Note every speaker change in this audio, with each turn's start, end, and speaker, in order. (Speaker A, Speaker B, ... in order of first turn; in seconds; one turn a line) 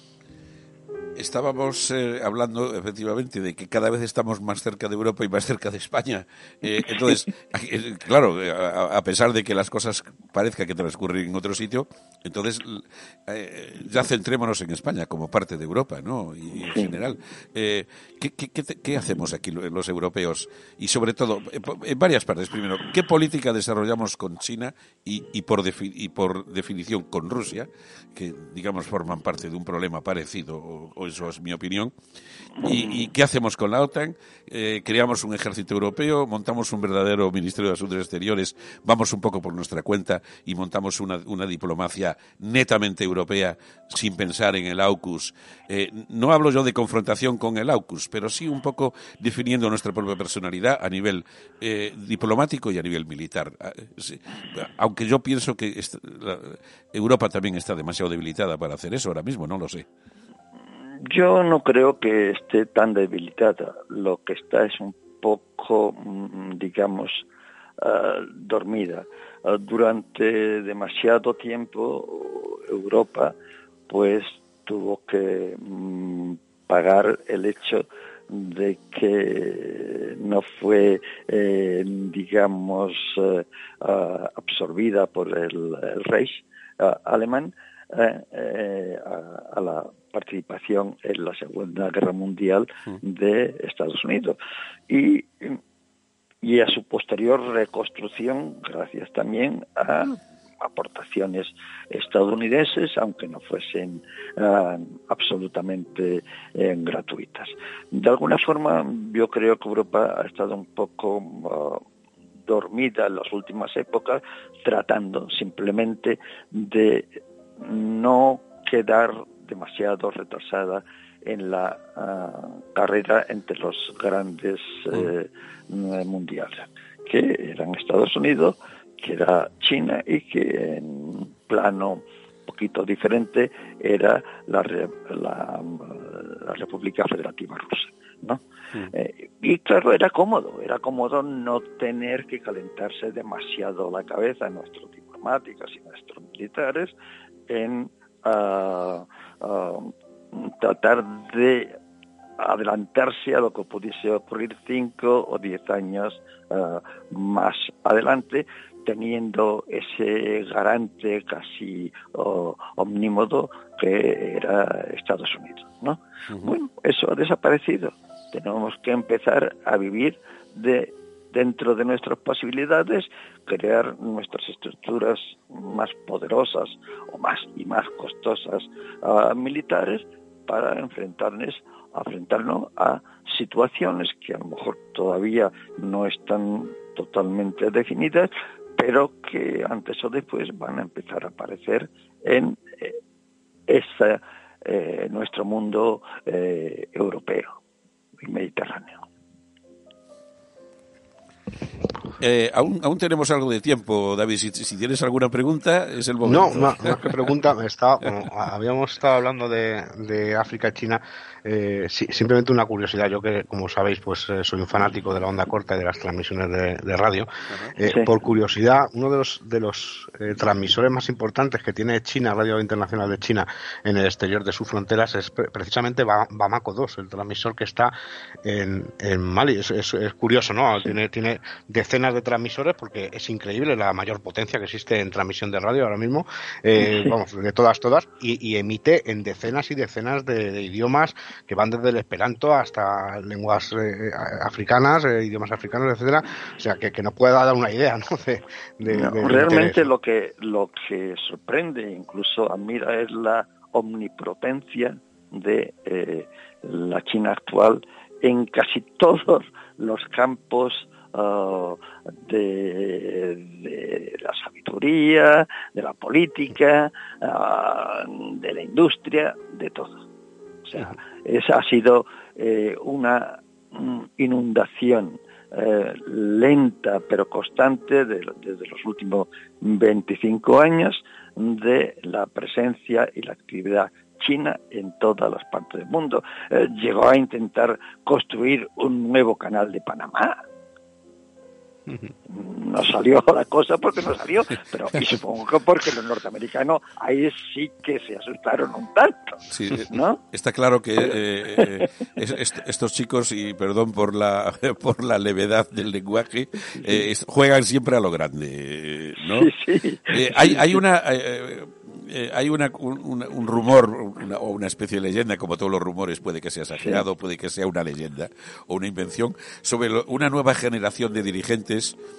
Speaker A: 1.1-31.9
Speaker B: 16.6-16.9
Speaker A: 32.6-59.9
Speaker B: 61.0-67.2
Speaker B: 67.8-73.3
Speaker B: 73.9-94.4
Speaker B: 94.9-95.6
Speaker B: 96.4-111.8
Speaker B: 112.5-138.4
Speaker B: 138.9-146.9
Speaker B: 147.5-151.8
Speaker B: 152.4-193.0
Speaker B: 193.7-197.6
Speaker B: 198.2-199.0
Speaker A: 202.2-207.3
Speaker C: 206.2-249.8
Speaker A: 217.5-217.7
Speaker B: 217.8-218.1
Speaker B: 248.9-270.0
Speaker B: 270.6-290.4
Speaker B: 292.3-300.2
Speaker A: 299.5-309.5
Speaker B: 301.0-301.9
Speaker B: 309.2-310.8
Speaker A: 310.1-321.9
Speaker B: 316.8-317.0